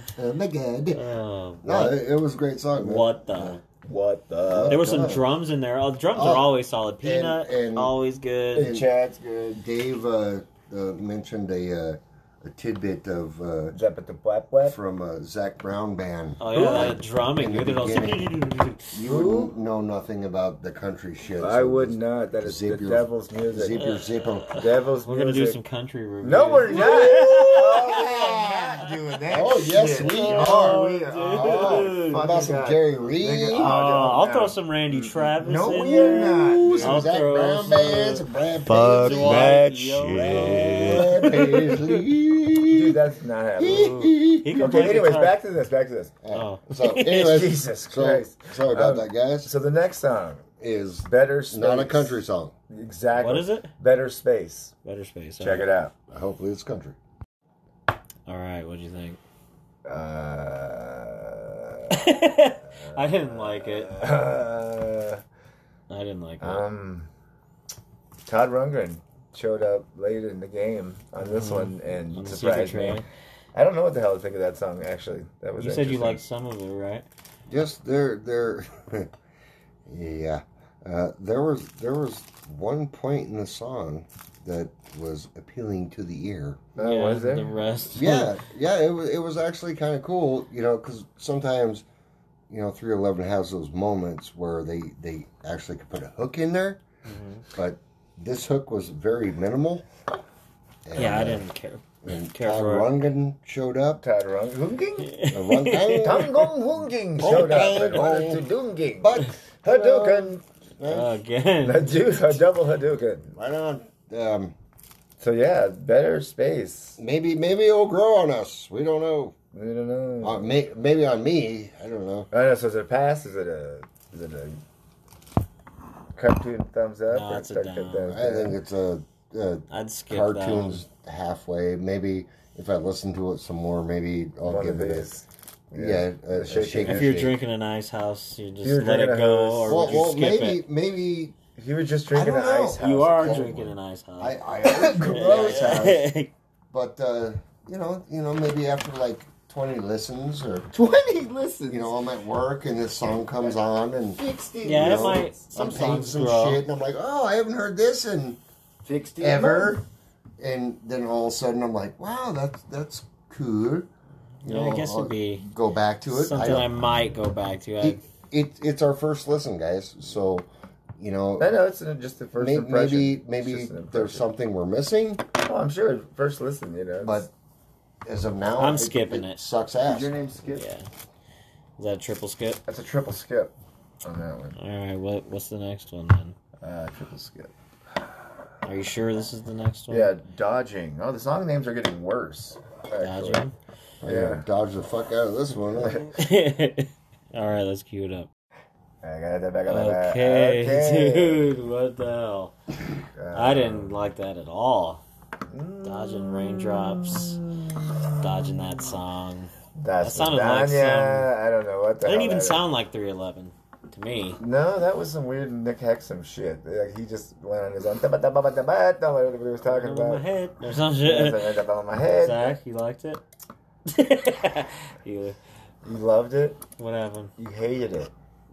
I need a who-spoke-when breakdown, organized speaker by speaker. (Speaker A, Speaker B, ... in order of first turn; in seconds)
Speaker A: 0.1-1.0, 1.6-3.6, 4.5-5.2, 6.1-7.9, 8.6-8.9, 9.6-13.8, 14.6-18.4, 18.9-24.6, 26.7-33.7, 35.6-43.0, 43.6-45.0, 46.2-49.5, 50.6-52.5, 56.1-57.0, 77.5-79.1, 79.9-86.7, 87.9-91.8, 92.5-96.8, 97.5-99.8, 100.8-101.4, 102.0-104.0, 105.3-106.4, 107.2-111.1, 113.3-114.5, 117.0-119.3, 120.2-122.3, 128.1-135.1, 135.7-137.4, 139.7-141.3, 142.1-146.0, 146.7-150.7, 151.7-158.4, 159.2-159.8, 160.4-163.9, 164.4-166.7, 167.8-170.5, 171.0-171.6, 172.4-175.2, 177.0-177.3, 178.0-180.2, 194.0-196.0
Speaker B: 0.9-2.0, 2.8-3.6, 4.7-8.7, 16.4-18.9, 23.8-28.0, 29.8-32.3, 33.5-41.9, 43.6-45.4, 46.3-47.3, 53.2-53.7, 54.8-55.7, 58.3-59.2, 61.9-63.9, 65.9-66.6, 71.2-73.0, 75.6-77.0, 86.8-88.4, 97.0-97.4, 101.0-102.9, 105.0-106.4, 110.9-112.3, 127.1-128.1, 129.7-130.8, 136.8-140.6, 142.8-144.3, 145.1-146.3, 154.6-156.6, 164.4-165.4, 166.1-168.0, 178.6-179.4, 180.5-180.9, 181.8-182.6, 184.6-186.3, 188.6-190.1, 193.0-193.5, 196.0-198.3, 199.7-202.5, 203.3-205.0, 205.8-207.4, 208.2-211.3, 212.0-214.4, 219.6-221.5, 222.0-223.2, 223.9-225.4, 226.8-227.3
Speaker C: 3.8-4.8, 8.5-9.6, 13.7-14.8, 16.5-16.9, 19.0-19.5, 21.4-23.8, 24.6-25.6, 26.2-37.1, 38.6-41.7, 42.7-46.1, 47.1-50.5, 51.0-54.7, 55.4-55.9, 59.9-65.2, 66.4-67.1, 68.2-76.2, 86.8-87.6, 104.0-105.2, 106.0-110.4, 111.6-113.3, 115.2-117.0, 119.5-120.5, 122.3-124.6, 126.1-128.6, 134.4-137.1, 138.6-140.1, 141.6-143.5, 144.6-146.0, 150.7-151.9, 154.2-155.4, 158.8-159.8, 171.4-174.2, 175.4-177.3, 179.8-180.6, 182.7-184.6, 186.6-187.5, 189.9-193.4, 194.0-194.4, 199.0-201.4, 203.2-203.9, 205.5-208.7, 209.7-212.6, 214.4-220.2, 221.0-222.6, 225.8-226.6, 227.4-228.1